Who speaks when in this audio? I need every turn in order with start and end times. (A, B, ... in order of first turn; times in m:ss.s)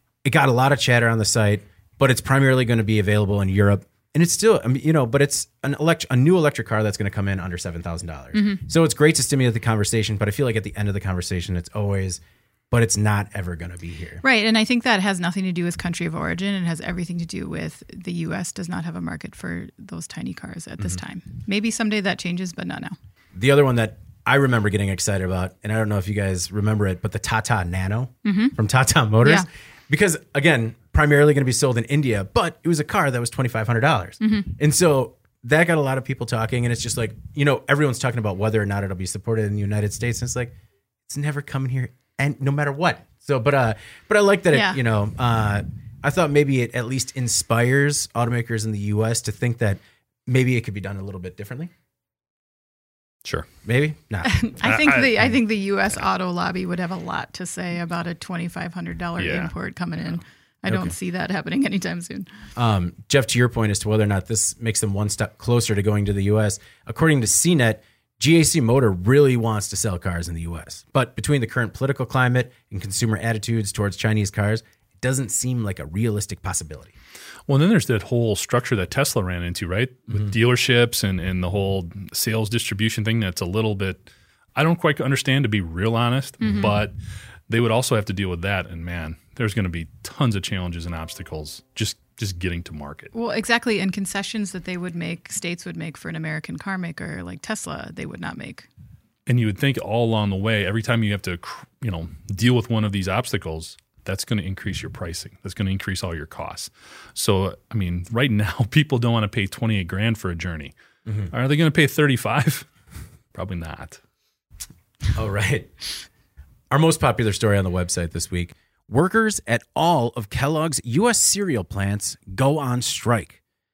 0:00.2-0:14.2 A
0:08.3-0:08.6 B
0:14.2-0:23.0 B
0:23.4-0:40.5 A
0:28.2-0:28.6 B
0:34.2-0:34.5 B
0:41.1-0:51.7 A
0:44.5-0:44.8 B
0:53.6-0:54.3 A
0:54.2-1:02.3 B
0:54.6-0:55.2 C
0:59.2-0:59.5 C
1:00.7-1:00.9 A
1:02.6-1:16.9 A
1:17.5-1:26.9 C
1:26.4-1:26.8 B
1:27.5-1:33.1 C
1:33.1-1:38.7 B
1:39.3-1:50.8 C
1:51.3-1:52.7 C
1:53.3-1:54.0 C
1:55.1-1:55.8 A
1:56.7-2:03.4 A